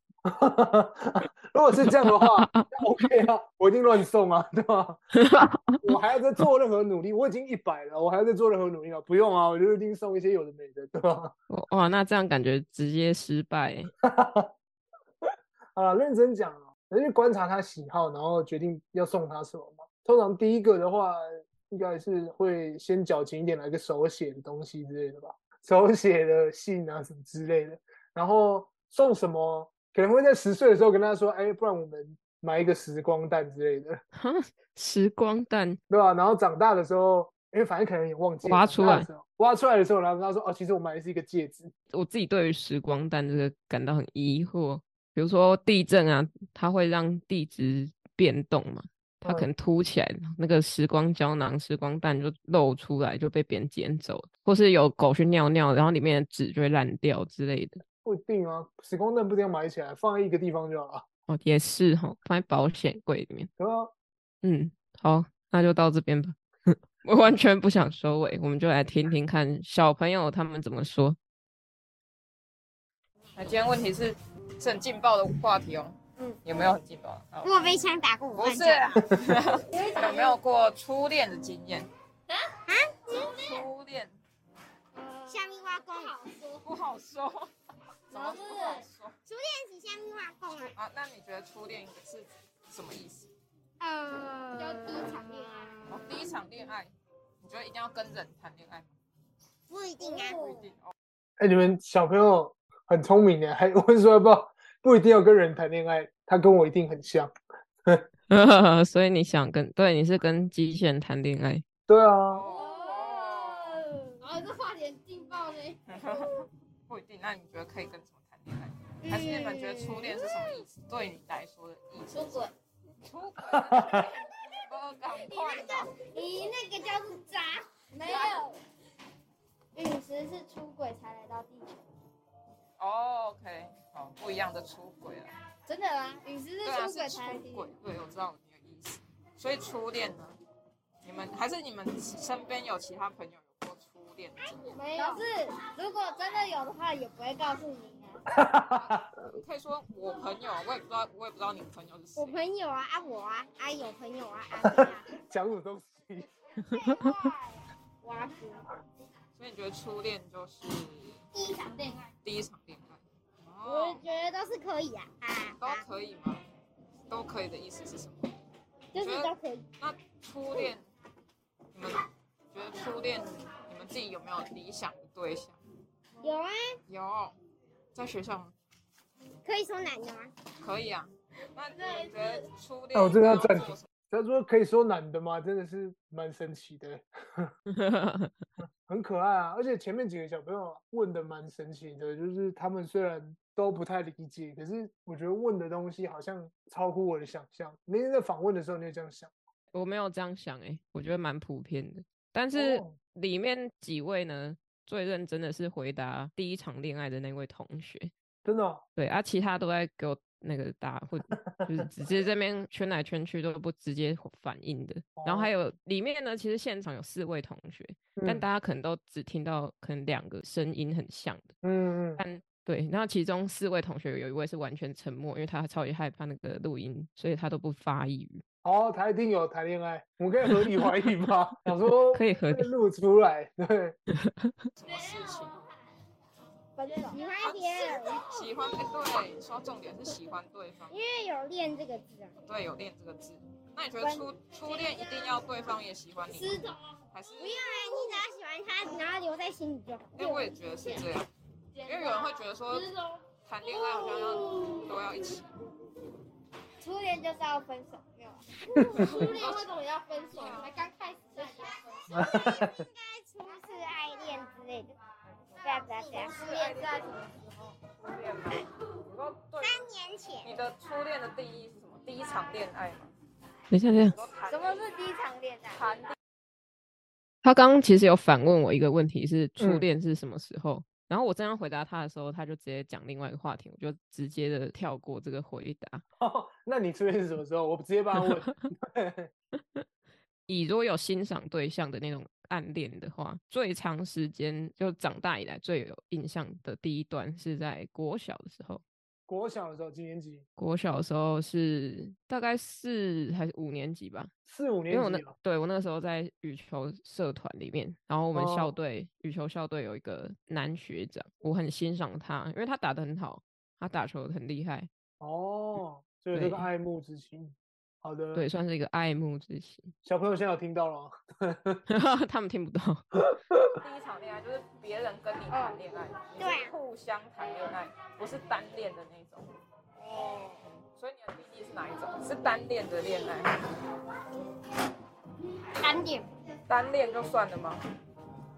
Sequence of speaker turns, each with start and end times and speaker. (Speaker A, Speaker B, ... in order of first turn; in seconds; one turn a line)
Speaker A: 0.2-5.0
Speaker B: 2.2-2.7
Speaker B: 5.2-5.8
Speaker A: 5.8-11.3
Speaker B: 11.5-13.9
Speaker A: 14.0-14.5
Speaker A: 15.8-34.0
Speaker B: 34.1-35.8
Speaker A: 35.9-41.7
Speaker B: 38.4-39.1
Speaker B: 41.9-57.8
Speaker A: 58.0-61.0
Speaker B: 61.3-63.5
Speaker A: 63.6-63.9
Speaker B: 64.4-71.2
Speaker C: 73.3-77.5
Speaker D: 77.4-78.9
Speaker C: 78.3-81.9
Speaker D: 82.7-83.6
Speaker C: 83.4-84.1
Speaker E: 85.0-85.4
Speaker D: 85.3-86.2
Speaker E: 86.0-86.6
Speaker C: 86.6-87.5
Speaker C: 88.1-89.1
Speaker E: 88.2-88.8
Speaker D: 89.2-90.7
Speaker C: 90.8-93.3
Speaker D: 93.8-95.9
Speaker E: 94.6-95.7
Speaker C: 95.9-98.9
Speaker D: 99.7-100.7
Speaker E: 100.0-100.4
Speaker C: 100.4-100.9
Speaker A: 101.4-107.3
Speaker B: 108.3-111.6
Speaker A: 111.9-112.4
Speaker C: 112.3-113.8
Speaker E: 112.5-115.8
Speaker C: 115.9-122.4
Speaker D: 119.1-119.9
Speaker E: 122.1-122.5
Speaker C: 123.0-125.9
Speaker A: 123.5-124.1
Speaker E: 126.1-128.6
Speaker E: 129.8-131.8
Speaker C: 132.8-135.3
Speaker E: 135.7-137.7
Speaker C: 136.6-140.4
Speaker C: 141.0-144.7
Speaker E: 144.8-148.1
Speaker D: 144.8-145.2
Speaker A: 148.3-149.1
Speaker C: 149.2-152.4
Speaker D: 152.2-155.1
Speaker A: 154.6-156.3
Speaker D: 156.7-157.3
Speaker B: 156.8-157.1
Speaker C: 159.3-161.2
Speaker C: 162.2-164.0
Speaker D: 163.7-165.8
Speaker C: 165.6-166.4
Speaker C: 167.1-168.3
Speaker C: 168.9-170.8
Speaker E: 169.0-169.6
Speaker C: 171.7-172.0
Speaker C: 172.5-175.6
Speaker D: 176.2-176.8
Speaker C: 176.9-177.4
Speaker C: 177.9-178.5
Speaker D: 179.4-180.3
Speaker C: 180.6-183.9
Speaker A: 182.9-187.5
Speaker B: 187.7-188.3
Speaker A: 188.9-199.3
Speaker B: 199.7-208.1
Speaker A: 202.5-203.0
Speaker A: 208.4-208.8
Speaker B: 208.9-221.5
Speaker A: 211.3-211.7
Speaker A: 215.2-215.5
Speaker A: 218.2-218.4
Speaker A: 221.6-222.2
Speaker B: 222.2-228.4
Speaker A: 228.6-233.9
Speaker B: 232.1-232.7
Speaker B: 234.2-234.5
Speaker C: 234.8-235.6
Speaker E: 236.8-237.2
Speaker D: 237.0-238.5
Speaker C: 237.4-240.9
Speaker D: 240.9-242.3
Speaker C: 242.4-246.6
Speaker E: 246.4-246.7
Speaker C: 247.1-247.7
Speaker D: 247.4-250.2
Speaker C: 250.1-251.3
Speaker C: 251.8-252.9
Speaker C: 253.4-255.4
Speaker E: 256.8-258.3
Speaker A: 258.8-259.3
Speaker E: 258.9-261.8
Speaker C: 259.2-259.5
Speaker C: 260.3-260.7
Speaker A: 262.1-262.8
Speaker D: 262.2-264.9
Speaker C: 265.5-267.1
Speaker D: 265.6-266.4
Speaker E: 266.2-267.4
Speaker C: 267.7-269.9
Speaker D: 269.6-270.5
Speaker C: 270.4-273.1
Speaker B: 273.7-274.2
Speaker C: 274.0-274.9
Speaker E: 274.5-275.8
Speaker C: 275.7-276.1
Speaker B: 277.4-286.0
Speaker A: 279.6-279.9
Speaker A: 286.2-289.3
Speaker B: 290.5-298.8
Speaker A: 299.3-300.4
Speaker B: 300.6-304.3
Speaker A: 304.4-305.3
Speaker B: 304.9-314.9
Speaker A: 308.3-308.7
Speaker A: 315.2-318.4
Speaker B: 316.3-316.7
Speaker B: 318.3-319.9
Speaker A: 320.0-321.8
Speaker B: 321.9-323.1
Speaker A: 323.3-323.7
Speaker C: 323.8-329.5
Speaker D: 325.5-325.8
Speaker D: 326.4-326.7
Speaker D: 330.0-330.6
Speaker C: 330.8-333.7
Speaker C: 336.7-337.8